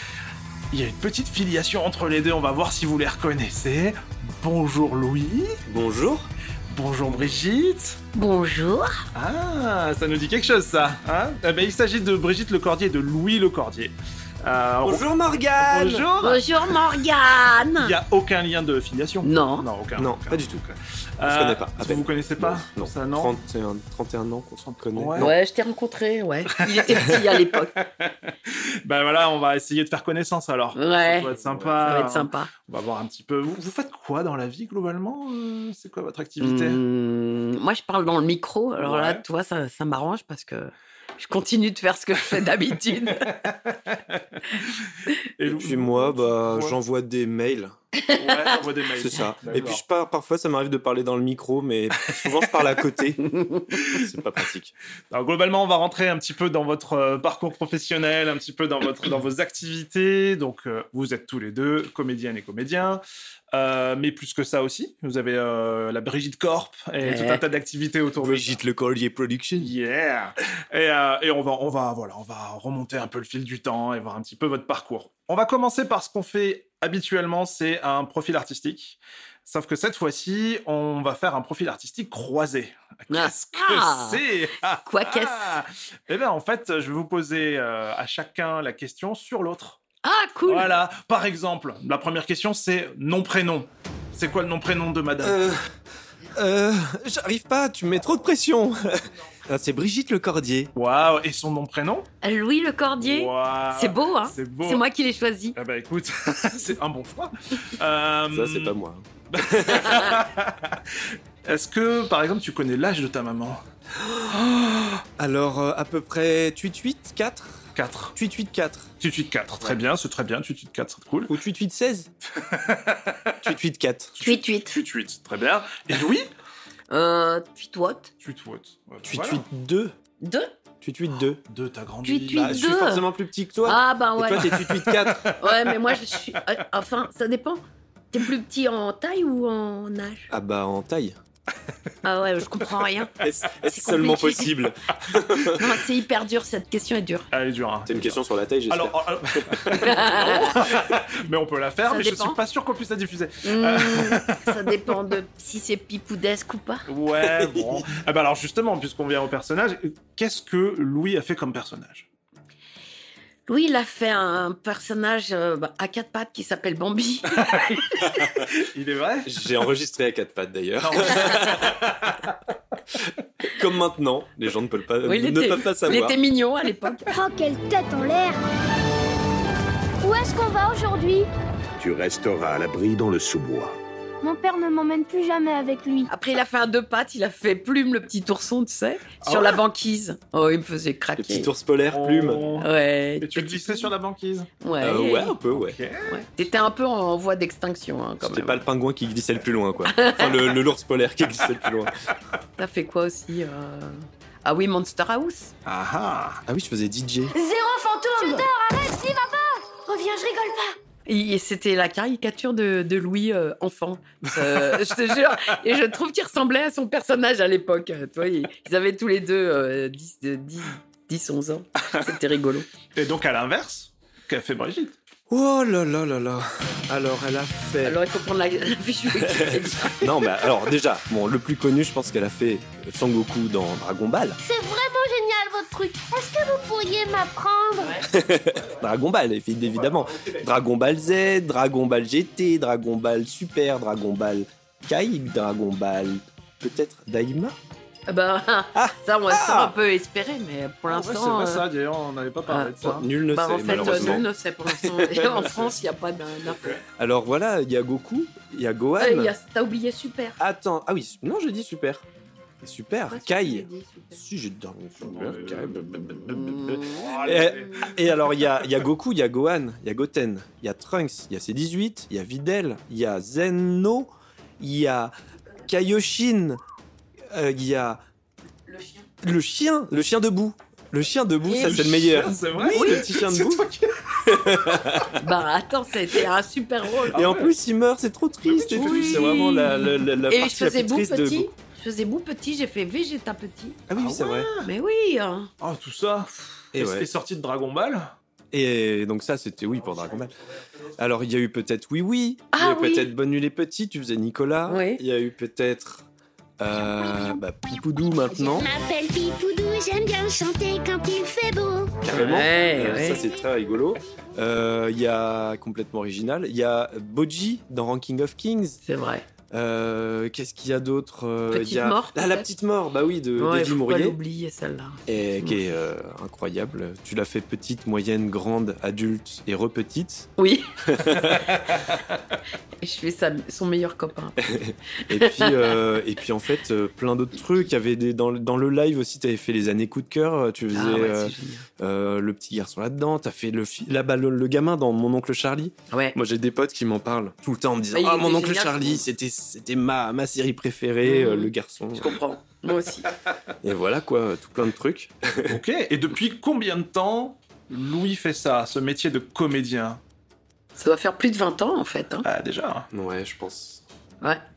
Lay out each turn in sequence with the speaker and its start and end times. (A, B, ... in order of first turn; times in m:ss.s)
0:00.7-0:05.6 A
0:05.7-0:06.3 B
0:06.7-0:08.0 A
0:08.1-0:09.0 C
0:09.1-0:16.4 A
0:14.8-0:16.1 B
0:16.2-0:17.9 C
0:17.8-0:23.3 A
0:19.2-0:19.7 C
0:20.0-0:20.6 B
0:21.2-0:25.3 B
0:24.9-0:25.3 A
0:25.2-0:27.8 C
0:26.6-0:36.8 A
0:30.7-0:32.5 C
0:36.4-0:43.5 C
0:38.8-0:39.2 A
0:43.2-0:46.8 A
0:45.4-0:47.7 B
0:48.0-0:48.5 C
0:48.1-0:49.8 A
0:49.0-0:54.7 B
0:53.3-0:53.6 C
0:53.7-0:54.0 A
0:55.1-1:03.0 A
1:03.5-1:08.6 A
1:07.0-1:07.4 C
1:08.2-1:09.7 B
1:09.6-1:29.8 A
1:23.1-1:25.6 C
1:30.0-1:30.7 C
1:30.4-1:35.4 A
1:35.2-1:35.7 B
1:36.3-1:40.7 B
1:40.7-1:42.1 A
1:42.2-1:45.6 C
1:43.0-1:44.8 A
1:45.6-1:48.8 A
1:48.3-1:50.0 B
1:49.3-1:53.6 A
1:49.7-1:50.2 C
1:54.0-1:54.3 B
1:54.3-1:55.0 A
1:55.2-1:58.9 B
1:57.8-1:58.2 A
1:59.0-2:01.3 A
2:01.3-2:02.1 B
2:02.4-2:03.4 A
2:03.4-2:04.2 B
2:04.2-2:06.3 A
2:04.2-2:04.8 C
2:06.9-2:08.1 C
2:08.2-2:09.4 A
2:09.0-2:09.9 B
2:10.2-2:10.5 C
2:10.8-2:11.4 B
2:11.5-2:12.6 A
2:12.0-2:13.0 C
2:12.3-2:15.3 B
2:13.6-2:14.5 C
2:14.4-2:15.7 A
2:15.4-2:20.3 C
2:20.3-2:21.2 B
2:22.0-2:23.1 C
2:23.2-2:25.8 B
2:23.6-2:24.5 C
2:25.5-2:27.3 C
2:27.3-2:34.6 A
2:27.8-2:30.0 B
2:29.7-2:30.7 C
2:31.9-2:32.4 C
2:33.4-2:36.9 C
2:36.9-2:42.1 A
2:37.2-2:37.8 B
2:43.5-2:48.2 C
2:47.5-2:49.3 A
2:49.2-2:51.9 B
2:50.8-2:52.3 A
2:53.4-2:56.2 B
2:55.0-2:57.1 C
2:57.1-2:58.4 D
3:00.0-3:01.3 D
3:01.8-3:03.8 E
3:04.2-3:06.1 D
3:06.1-3:11.5 C
3:09.2-3:09.6 A
3:11.2-3:12.5 B
3:11.9-3:12.7 A
3:12.6-3:13.9 C
3:13.2-3:14.5 A
3:14.6-3:15.4 C
3:14.8-3:15.8 B
3:15.4-3:16.2 A
3:16.1-3:18.6 C
3:18.2-3:22.0 B
3:19.9-3:20.5 C
3:22.6-3:25.5 C
3:25.6-3:26.4 A
3:26.5-3:27.3 B
3:27.3-3:30.7 D
3:31.0-3:42.7 C
3:43.0-3:45.0 A
3:45.3-3:48.0 B
3:47.8-3:50.5 C
3:49.2-3:54.4 B
3:54.4-3:58.1 D
3:58.0-4:07.6 B
3:59.8-4:00.4 A
4:08.1-4:11.6 C
4:08.7-4:09.7 B
4:10.9-4:13.1 A
4:12.5-4:16.8 C
4:12.8-4:14.3 B
4:14.8-4:15.5 B
4:17.0-4:19.3 B
4:19.0-4:20.4 C
4:20.4-4:22.0 B
4:22.6-4:35.1 B
4:23.1-4:24.2 C
4:25.0-4:25.8 A
4:26.3-4:27.9 C
4:26.8-4:28.0 A
4:35.7-4:36.6 B
4:37.3-4:38.0 B
4:38.7-4:39.1 C
4:39.2-4:43.6 B
4:41.5-4:44.6 A
4:42.7-4:43.0 C
4:44.2-4:45.2 B
4:45.2-4:47.3 C
4:47.1-4:47.5 A
4:47.1-4:51.5 B
4:48.4-4:49.6 A
4:48.7-4:53.8 C
4:53.9-4:54.5 B
4:54.0-4:54.7 A
4:54.6-4:55.5 C
4:55.6-4:58.1 A
4:56.7-4:57.1 B
4:58.5-5:00.4 B
5:01.0-5:06.1 B
5:02.5-5:03.1 C
5:04.7-5:05.0 C
5:06.6-5:08.7 B
5:07.0-5:07.4 D
5:08.3-5:12.0 D
5:12.0-5:18.8 B
5:12.1-5:13.2 C
5:12.6-5:13.4 D
5:18.8-5:19.2 C
5:19.5-5:24.2 B
5:21.5-5:22.6 C
5:23.4-5:25.7 C
5:25.1-5:30.3 B
5:30.4-5:30.7 C
5:30.8-5:31.6 B
5:32.8-5:35.8 C
5:34.4-5:52.2 B
5:40.7-5:41.6 C
5:45.9-5:46.2 C
5:47.9-5:49.0 C
5:51.0-5:53.1 C
5:53.6-5:55.6 B
5:55.5-6:00.0 A
6:00.8-6:02.3 C
6:02.2-6:02.9 A
6:02.9-6:03.8 B